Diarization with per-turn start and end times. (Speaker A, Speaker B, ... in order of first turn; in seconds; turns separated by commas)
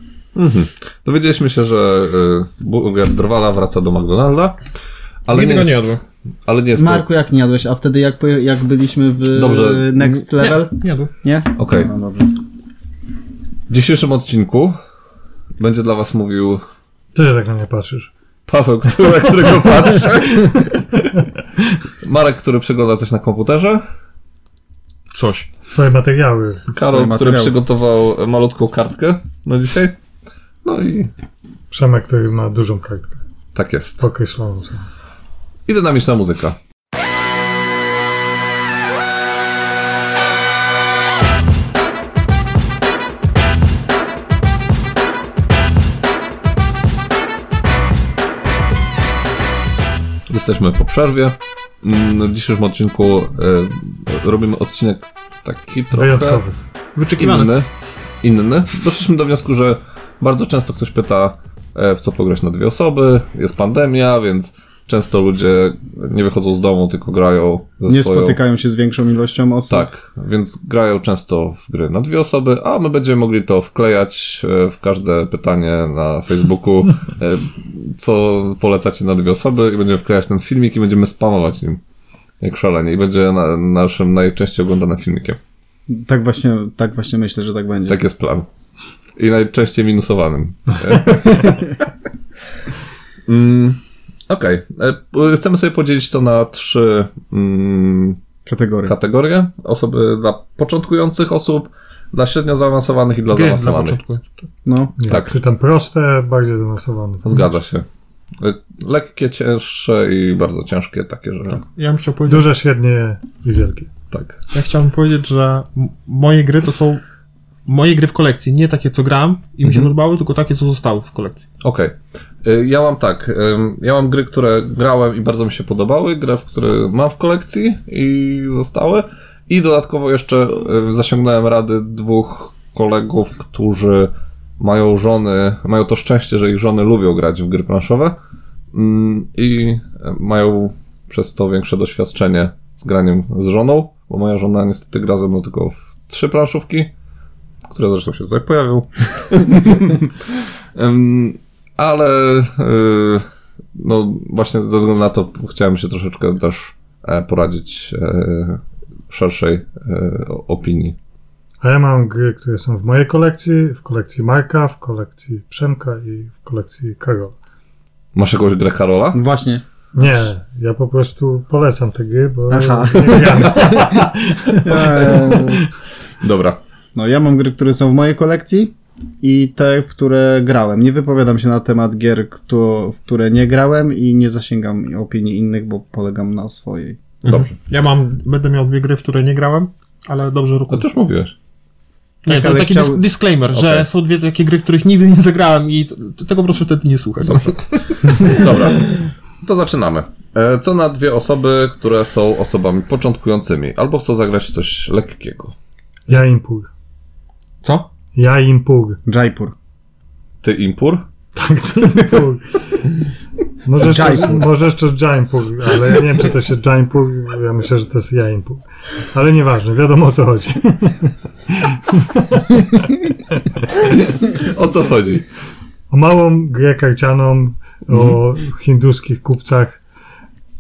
Speaker A: 0.3-4.6, Speaker A: 5.2-7.1, Speaker B: 5.3-6.0, Speaker C: 6.8-12.3, Speaker A: 9.3-10.2, Speaker B: 10.4-11.1, Speaker A: 11.6-11.9, Speaker A: 13.7-14.8, Speaker A: 15.6-16.6, Speaker D: 17.1-18.1, Speaker A: 18.5-21.2, Speaker A: 22.0-23.9, Speaker B: 25.1-25.5, Speaker D: 25.6-26.7, Speaker A: 26.7-30.0, Speaker C: 26.8-27.6, Speaker A: 30.6-31.1, Speaker D: 31.7-33.2, Speaker A: 33.5-34.1, Speaker D: 34.0-34.9, Speaker A: 35.7-36.6, Speaker A: 50.3-56.4, Speaker D: 55.9-56.6, Speaker B: 57.0-57.5, Speaker A: 57.2-57.7, Speaker A: 58.2-68.4, Speaker C: 67.9-69.9, Speaker A: 69.7-81.8, Speaker A: 82.4-85.4, Speaker C: 85.9-88.0, Speaker A: 87.9-88.5, Speaker A: 89.2-91.9, Speaker A: 93.3-98.2, Speaker C: 98.5-98.9, Speaker A: 98.8-104.0, Speaker B: 103.3-104.4, Speaker C: 104.7-105.0, Speaker D: 105.0-107.5, Speaker A: 105.1-105.3, Speaker A: 107.2-107.9, Speaker A: 108.4-111.6, Speaker B: 111.7-112.5, Speaker D: 112.3-113.9, Speaker A: 114.1-114.4, Speaker B: 114.5-117.0, Speaker B: 117.7-121.5, Speaker A: 119.6-119.9, Speaker A: 121.6-138.2, Speaker A: 138.7-146.9, Speaker A: 147.7-161.0, Speaker D: 161.6-167.3, Speaker A: 168.1-169.2, Speaker C: 169.1-169.6, Speaker D: 169.9-175.4, Speaker C: 172.5-174.0, Speaker C: 174.6-175.7, Speaker A: 174.7-175.4, Speaker A: 176.2-176.6, Speaker C: 176.9-187.0, Speaker A: 187.2-187.6, Speaker B: 187.3-190.9, Speaker A: 190.7-191.3, Speaker B: 192.2-198.4, Speaker C: 192.3-193.0, Speaker A: 193.5-193.9, Speaker A: 197.3-205.6, Speaker D: 206.1-206.7, Speaker B: 207.6-207.9, Speaker D: 208.2-209.0, Speaker C: 209.1-209.6, Speaker A: 210.4-211.1, Speaker D: 211.3-212.4, Speaker D: 213.7-223.0, Speaker C: 213.8-214.5, Speaker A: 224.3-225.3, Speaker D: 225.9-229.8, Speaker A: 227.9-228.2